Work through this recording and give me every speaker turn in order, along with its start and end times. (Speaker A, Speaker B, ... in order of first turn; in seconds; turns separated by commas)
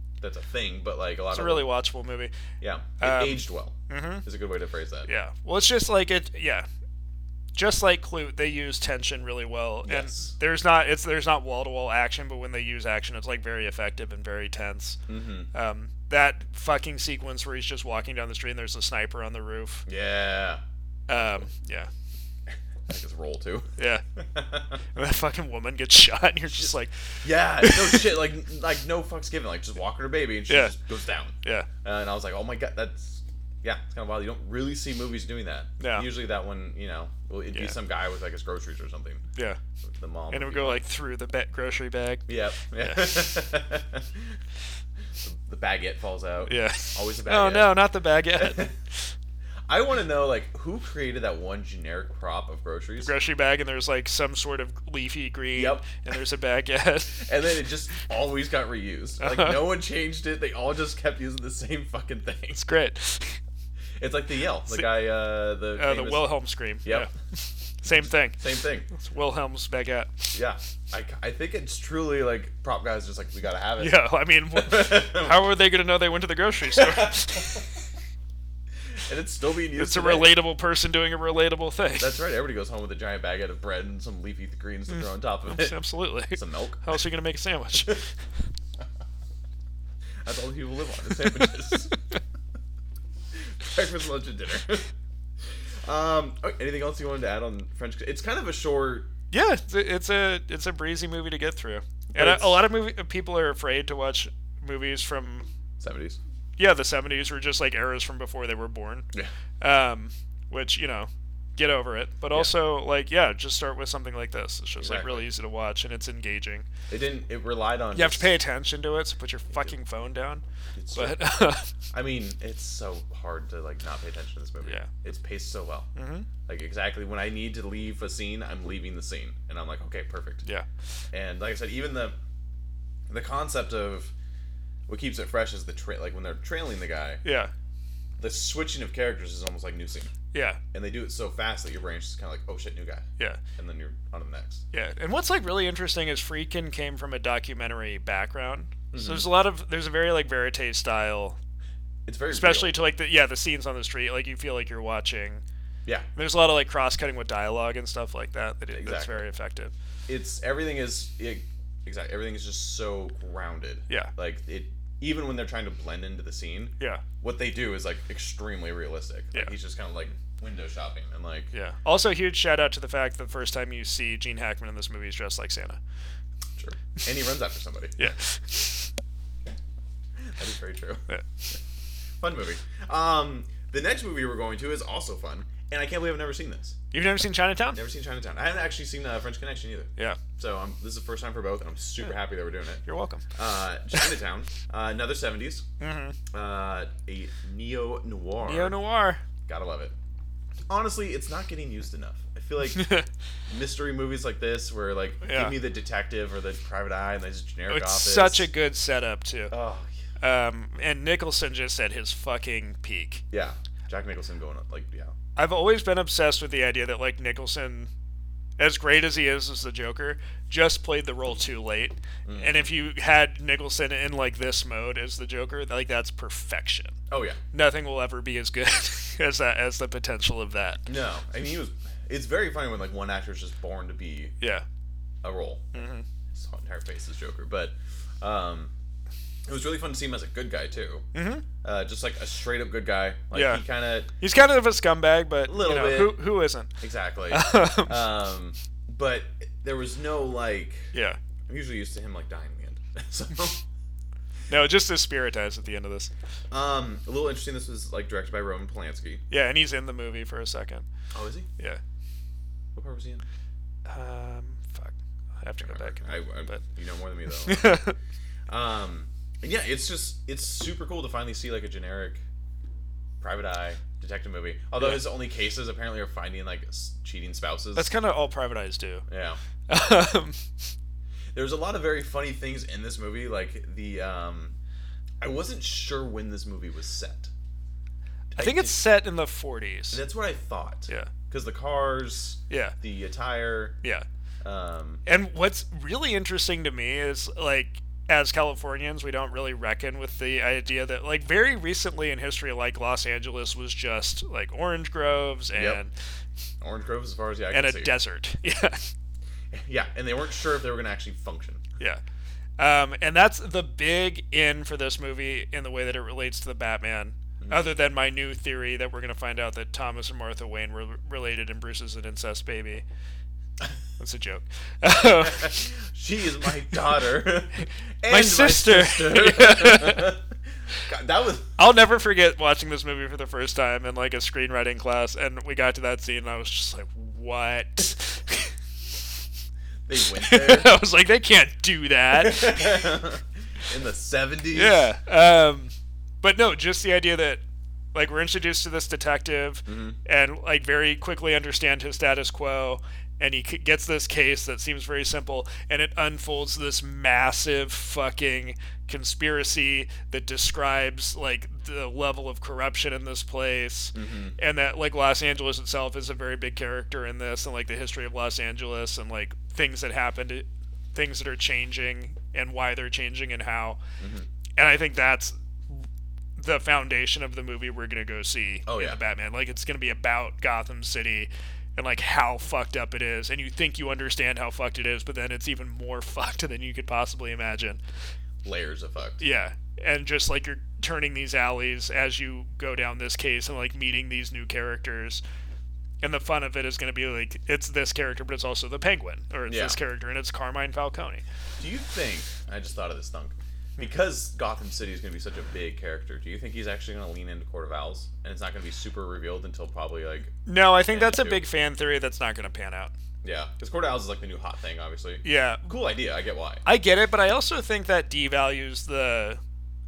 Speaker A: 0.2-1.7, Speaker B: 1.3-2.3, Speaker A: 2.6-5.1, Speaker B: 3.0-4.2, Speaker B: 5.1-6.7, Speaker B: 7.5-15.0, Speaker A: 9.8-10.3, Speaker A: 15.1-15.5, Speaker B: 15.5-19.9, Speaker A: 19.9-20.6, Speaker B: 21.1-21.9, Speaker A: 21.1-21.4, Speaker A: 22.9-24.8, Speaker B: 23.8-24.0, Speaker B: 24.9-28.1, Speaker A: 27.2-39.2, Speaker B: 30.5-30.8, Speaker B: 31.4-31.7, Speaker B: 35.8-36.1, Speaker A: 39.8-40.8, Speaker B: 40.3-43.0, Speaker A: 42.3-44.4, Speaker A: 45.2-47.8, Speaker B: 46.5-49.1, Speaker A: 48.4-48.7, Speaker A: 49.7-53.1, Speaker B: 53.0-57.3, Speaker A: 55.5-55.9, Speaker A: 57.1-62.6, Speaker B: 59.2-59.7, Speaker B: 62.5-63.4, Speaker A: 64.0-66.3, Speaker B: 65.8-70.3, Speaker A: 66.8-67.1, Speaker A: 67.9-68.9, Speaker A: 70.3-74.0, Speaker B: 73.8-77.6, Speaker A: 74.5-75.5, Speaker A: 76.7-77.6, Speaker A: 79.0-80.4, Speaker B: 79.8-82.2, Speaker A: 82.0-86.9, Speaker B: 85.5-88.1, Speaker A: 90.2-91.9, Speaker B: 91.2-91.8, Speaker A: 93.6-94.9, Speaker A: 95.8-99.1, Speaker B: 99.3-105.5, Speaker A: 102.1-102.7, Speaker A: 105.8-106.2, Speaker B: 106.6-109.1, Speaker B: 109.6-116.7, Speaker A: 114.8-115.3, Speaker A: 116.9-118.3, Speaker B: 117.9-120.4, Speaker A: 120.8-121.2, Speaker B: 120.9-121.7, Speaker A: 121.9-125.9, Speaker B: 124.6-124.9, Speaker B: 126.0-126.3, Speaker A: 126.5-130.4, Speaker A: 131.1-132.2, Speaker A: 133.1-134.1, Speaker A: 134.9-137.2, Speaker B: 137.2-137.5, Speaker A: 138.2-140.1, Speaker B: 140.3-140.6, Speaker A: 140.7-144.6, Speaker B: 144.7-151.4, Speaker A: 148.9-149.3, Speaker A: 152.1-152.8, Speaker B: 152.3-155.4, Speaker B: 156.2-159.7, Speaker A: 158.7-159.2, Speaker A: 160.1-171.5, Speaker B: 171.5-175.8, Speaker A: 176.6-178.0, Speaker B: 178.0-178.9, Speaker A: 180.2-181.6, Speaker A: 182.2-186.8, Speaker B: 186.9-187.8, Speaker A: 187.7-195.7, Speaker B: 192.8-193.3, Speaker B: 195.8-196.2, Speaker A: 196.3-198.8, Speaker B: 198.4-199.2, Speaker A: 199.5-199.9, Speaker A: 200.7-202.9, Speaker B: 202.7-203.0, Speaker A: 203.5-208.5, Speaker B: 205.2-205.6, Speaker B: 207.7-209.5, Speaker A: 209.5-209.9, Speaker B: 210.2-213.2, Speaker A: 213.3-215.1, Speaker B: 215.4-217.9, Speaker B: 218.6-227.0, Speaker A: 222.2-222.8, Speaker A: 227.1-227.4, Speaker B: 227.5-230.9, Speaker A: 230.9-234.3, Speaker A: 235.2-238.7, Speaker B: 235.7-236.0, Speaker A: 239.5-241.1, Speaker B: 241.1-241.4, Speaker A: 241.6-244.1, Speaker B: 243.3-243.6, Speaker B: 244.2-246.7, Speaker A: 245.5-246.2, Speaker A: 246.8-250.9, Speaker B: 247.3-248.0, Speaker B: 250.9-251.2, Speaker A: 251.5-253.6, Speaker B: 254.5-256.1, Speaker A: 256.5-259.2, Speaker B: 259.3-260.9, Speaker A: 261.1-261.5, Speaker A: 262.8-263.2, Speaker B: 263.9-266.6, Speaker A: 265.6-267.9, Speaker B: 267.3-267.9, Speaker A: 268.5-272.2, Speaker A: 273.2-277.9, Speaker B: 274.8-275.0, Speaker B: 277.8-279.0, Speaker A: 279.1-279.4, Speaker B: 279.7-280.5, Speaker A: 281.3-284.6, Speaker A: 285.2-287.3, Speaker A: 288.3-288.8, Speaker B: 288.4-290.0, Speaker A: 289.9-293.8, Speaker B: 292.5-292.8, Speaker A: 294.4-295.0, Speaker B: 295.0-305.9, Speaker A: 305.5-305.8, Speaker A: 306.6-308.0, Speaker B: 307.5-308.9, Speaker A: 309.5-311.6, Speaker B: 312.6-322.8, Speaker A: 317.4-317.7, Speaker B: 324.0-325.7, Speaker A: 325.0-330.2, Speaker B: 328.1-330.2, Speaker A: 330.8-331.6, Speaker B: 331.6-338.5, Speaker A: 339.9-340.7, Speaker B: 340.1-343.0, Speaker A: 342.1-344.9, Speaker B: 344.5-347.4, Speaker B: 347.9-373.8, Speaker A: 349.7-350.0, Speaker A: 363.9-364.4, Speaker A: 374.0-374.3, Speaker B: 374.6-375.8, Speaker B: 376.4-387.8, Speaker A: 378.7-379.0, Speaker A: 388.4-389.2, Speaker B: 389.2-395.2, Speaker B: 396.0-401.2, Speaker A: 399.5-399.8, Speaker A: 401.6-411.4, Speaker B: 410.5-412.9, Speaker A: 413.2-416.6, Speaker B: 415.2-415.7, Speaker B: 416.6-419.4